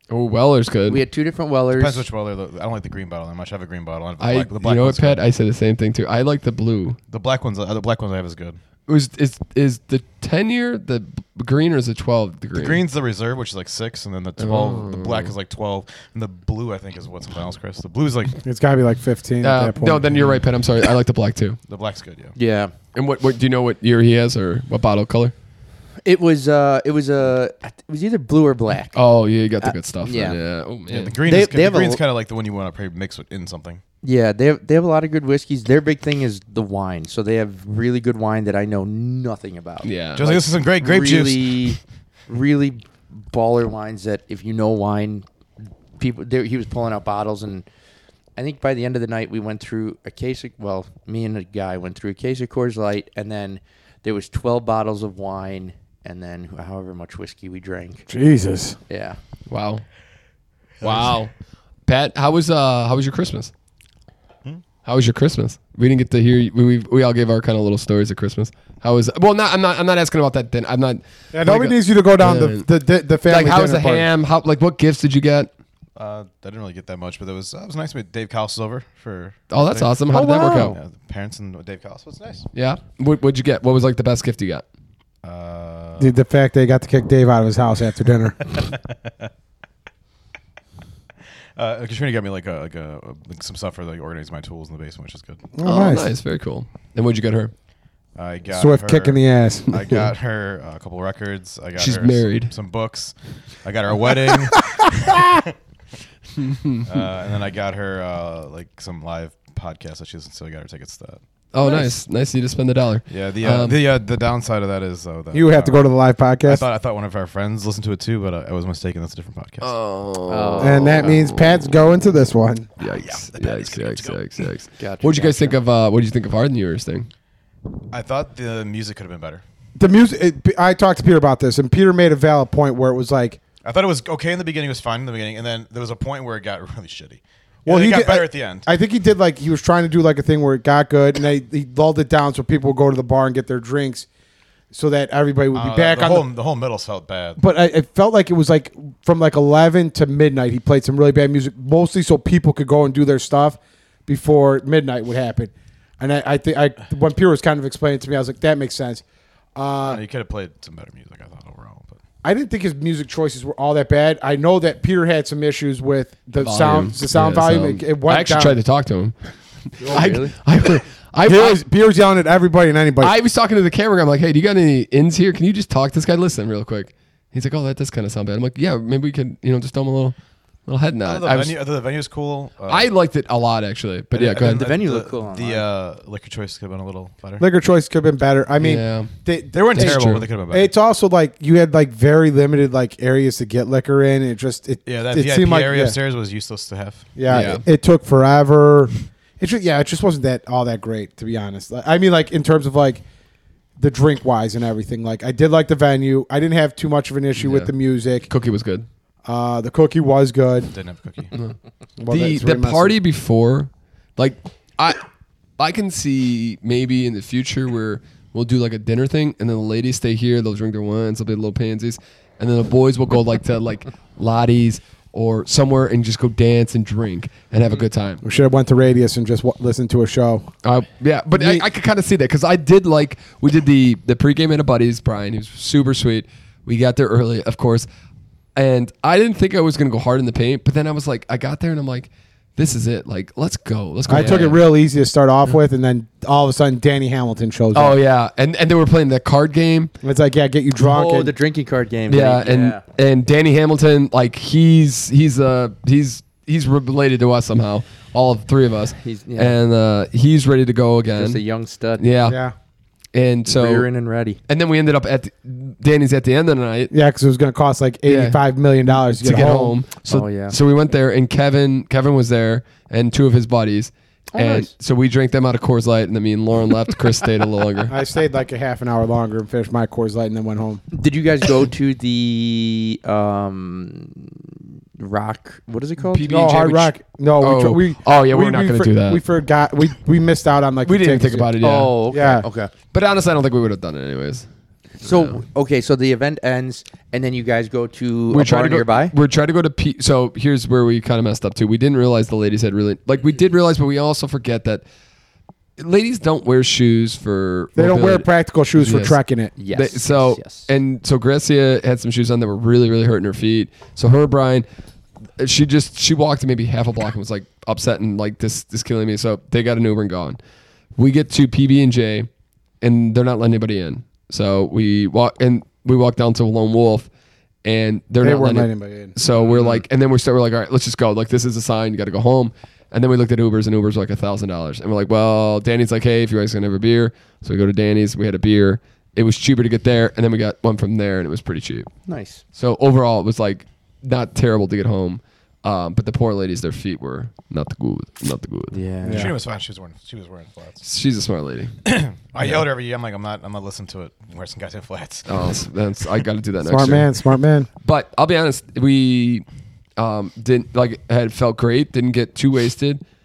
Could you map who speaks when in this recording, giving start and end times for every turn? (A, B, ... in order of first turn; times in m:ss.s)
0:00.1-0:01.0 A
0:00.9-0:02.0 B
0:01.7-0:05.2 C
0:04.2-0:07.0 A
0:07.1-0:08.6 C
0:08.9-0:12.8 A
0:12.5-0:18.4 C
0:14.4-0:15.3 A
0:18.4-0:20.3 D
0:19.4-0:21.6 A
0:21.7-0:22.3 C
0:22.4-0:22.7 B
0:22.9-0:25.3 A
0:26.0-0:29.0 B
0:29.0-0:31.1 A
0:29.6-0:30.4 B
0:30.9-0:33.8 C
0:31.2-0:32.0 B
0:34.0-0:45.2 B
0:39.8-0:40.4 A
0:40.2-0:41.8 C
0:46.0-0:47.6 B
0:48.4-0:58.0 B
0:58.1-0:58.8 D
0:58.9-0:59.2 B
0:59.5-0:59.8 A
1:00.8-1:01.3 A
1:00.8-1:01.1 C
1:01.9-1:03.5 A
1:04.8-1:12.7 A
1:11.3-1:14.1 D
1:13.2-1:15.5 A
1:16.0-1:22.5 C
1:19.5-1:20.8 A
1:20.1-1:20.8 B
1:22.5-1:24.6 A
1:25.2-1:26.1 C
1:26.0-1:28.5 D
1:28.5-1:28.8 C
1:31.6-1:35.4 C
1:35.5-1:36.1 D
1:35.6-1:37.5 A
1:38.2-1:45.5 C
1:38.5-1:39.8 D
1:41.8-1:42.5 A
1:44.3-1:45.4 D
1:46.4-1:46.9 A
1:46.8-1:51.2 C
1:51.5-1:53.8 A
1:51.6-1:51.9 B
1:53.1-1:55.8 C
1:55.3-1:56.6 D
1:56.4-1:59.7 C
1:59.6-2:01.7 A
2:00.3-2:01.1 B
2:00.6-2:02.7 D
2:02.8-2:07.1 A
2:02.9-2:04.4 C
2:04.8-2:05.5 B
2:07.9-2:09.4 C
2:09.8-2:13.4 D
2:13.6-2:18.7 C
2:17.7-2:24.1 D
2:24.7-2:26.3 D
2:25.5-2:27.4 C
2:27.4-2:39.0 D
2:39.5-2:40.0 D
2:39.8-2:42.0 C
2:42.2-2:48.6 D
2:46.4-2:51.6 A
2:49.8-2:50.3 B
2:51.2-2:53.1 D
2:53.0-3:01.6 A
3:01.0-3:02.9 C
3:02.7-3:04.7 A
3:04.1-3:07.4 C
3:04.5-3:05.6 B
3:07.4-3:16.0 D
3:08.6-3:09.1 A
3:09.5-3:10.7 C
3:09.7-3:10.2 A
3:14.8-3:17.1 C
3:17.2-3:23.0 D
3:17.3-3:17.6 A
3:23.8-3:28.3 D
3:27.3-3:27.7 A
3:28.3-3:28.9 A
3:29.2-3:30.7 D
3:30.7-3:31.3 C
3:32.0-3:33.0 D
3:32.1-3:35.0 A
3:35.6-3:48.2 A
3:48.2-3:50.5 D
3:50.6-3:57.9 A
3:51.3-3:51.6 D
3:58.6-4:04.6 A
4:04.1-4:08.0 D
4:04.1-4:04.4 B
4:07.7-4:09.9 A
4:10.0-4:11.3 D
4:10.8-4:12.8 B
4:12.1-4:21.4 A
4:19.0-4:19.6 B
4:21.1-4:22.0 B
4:22.0-4:22.4 A
4:22.2-4:22.5 D
4:23.1-4:23.8 A
4:23.5-4:24.4 B
4:24.5-4:26.9 A
4:26.9-4:29.8 D
4:28.0-4:38.0 A
4:30.1-4:30.6 B
4:34.3-4:34.7 B
4:37.9-4:40.8 D
4:40.9-4:46.3 B
4:46.0-4:49.2 A
4:46.2-4:51.5 D
4:50.8-4:54.5 A
4:51.6-4:52.7 B
4:52.1-4:52.5 D
4:55.0-4:59.1 B
4:55.0-4:55.4 A
4:58.3-5:04.8 A
5:05.8-5:09.2 A
5:07.8-5:09.5 D
5:09.6-5:10.7 B
5:09.7-5:14.6 A
5:15.4-5:20.4 A
5:21.0-5:22.3 A
5:22.8-5:27.1 A
5:27.6-5:41.9 A
5:28.2-5:29.1 D
5:29.3-5:29.8 C
5:42.1-5:42.4 B
5:42.5-5:48.8 A
5:48.7-5:49.3 B
5:49.0-5:49.3 D
5:49.1-5:50.8 C
5:50.8-5:51.8 A
5:51.8-5:55.6 C
5:55.3-5:57.1 A
5:56.6-5:57.7 D
5:57.8-5:59.4 A
6:00.0-6:03.0 A